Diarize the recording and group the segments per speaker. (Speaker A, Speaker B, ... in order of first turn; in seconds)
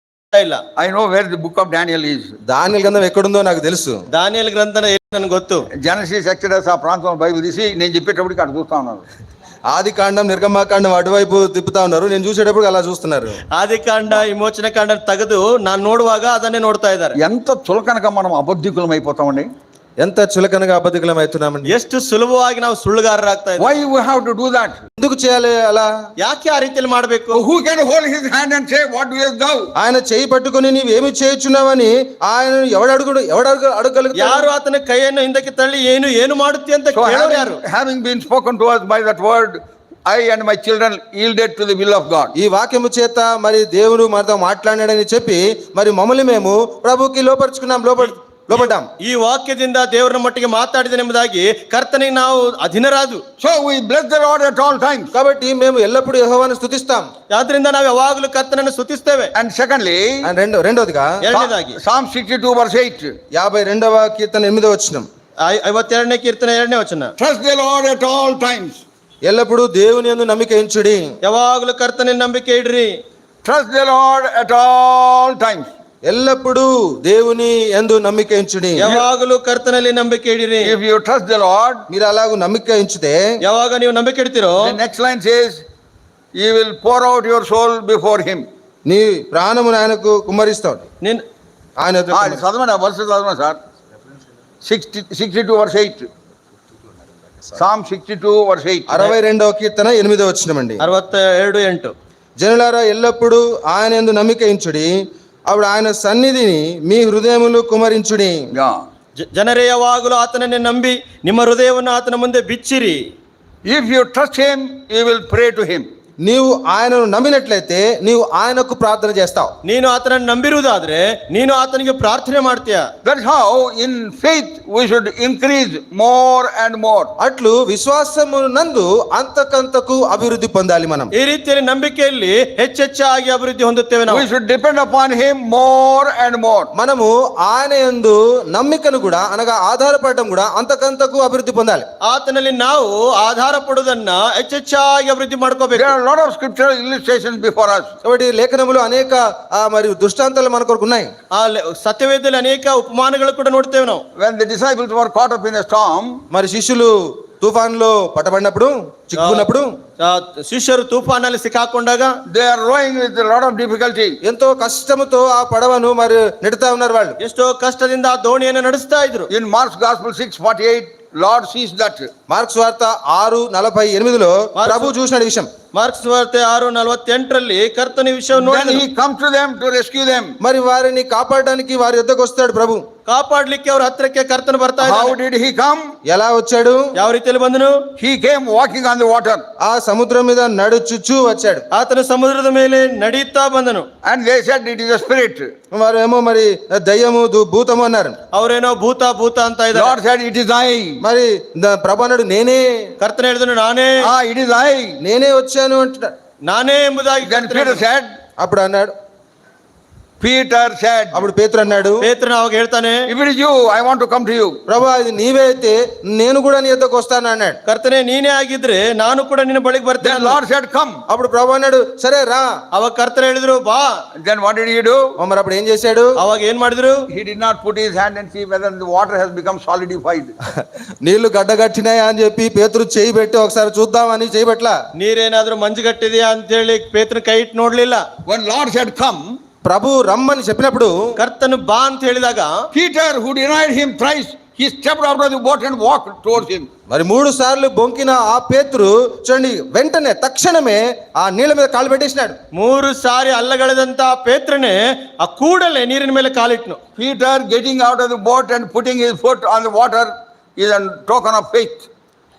Speaker A: 0.3-0.6, 4.1-5.7, 13.6-17.2, 21.7-23.7, 26.2-27.4, 34.1-37.6, 48.0-53.2, 57.3-59.3, 61.2-61.8, 65.4-67.1, 71.2-72.9, 78.8-80.8, 83.4-84.8, 100.8-101.9, 109.2-113.0, 119.7-122.9, 131.2-134.3, 142.1-145.9, 151.3-154.0, 159.2-159.5, 160.0-162.2, 167.2-169.3, 174.6-174.9, 175.7-178.8, 183.1-185.2, 186.9-187.8, 191.7-193.9, 198.3-199.9, 203.0-204.1, 206.5-207.8, 212.0-213.1, 217.7-220.4, 222.7-223.9, 226.2-227.0, 235.0-238.0, 241.2-242.5, 252.6-256.8
Speaker B: 0.8-2.3, 5.8-9.1, 17.2-19.5, 23.6-24.8, 27.3-29.7, 36.9-42.3, 53.4-55.1, 59.4-60.3, 61.3-63.1, 67.2-68.8, 73.4-75.7, 80.6-81.8, 84.6-85.6, 86.3-88.5, 92.1-93.6, 94.6-96.1, 97.5-99.1, 108.5-108.8, 113.7-115.9, 123.0-127.1, 134.1-136.7, 145.8-147.9, 154.2-156.2, 162.3-164.2, 169.3-172.1, 178.3-180.3, 184.8-185.9, 188.0-189.4, 194.1-195.5, 199.7-201.0, 204.0-205.0, 207.2-208.1, 210.2-211.3, 213.1-214.6, 220.0-221.0, 224.2-225.0, 227.1-230.4, 238.3-239.4, 242.7-246.7, 257.0-261.9
Speaker C: 2.5-4.0, 9.7-13.4, 20.0-21.7, 25.0-25.9, 29.8-34.5, 42.4-48.9, 55.1-57.1, 60.2-61.1, 63.3-65.1, 69.2-71.1, 76.1-78.9, 81.9-83.2, 88.9-90.9, 91.8-92.4, 98.9-100.8, 102.4-104.9, 105.5-108.4, 116.2-119.5, 127.2-131.1, 136.7-141.9, 148.0-151.1, 156.3-159.7, 164.2-167.2, 172.3-175.5, 180.4-182.8, 186.1-186.9, 189.6-191.6, 195.7-198.2, 201.0-202.9, 205.0-206.1, 208.4-208.9, 211.1-212.0, 214.7-217.6, 221.1-222.5, 225.2-226.2, 231.0-234.8, 239.6-240.9, 246.9-252.4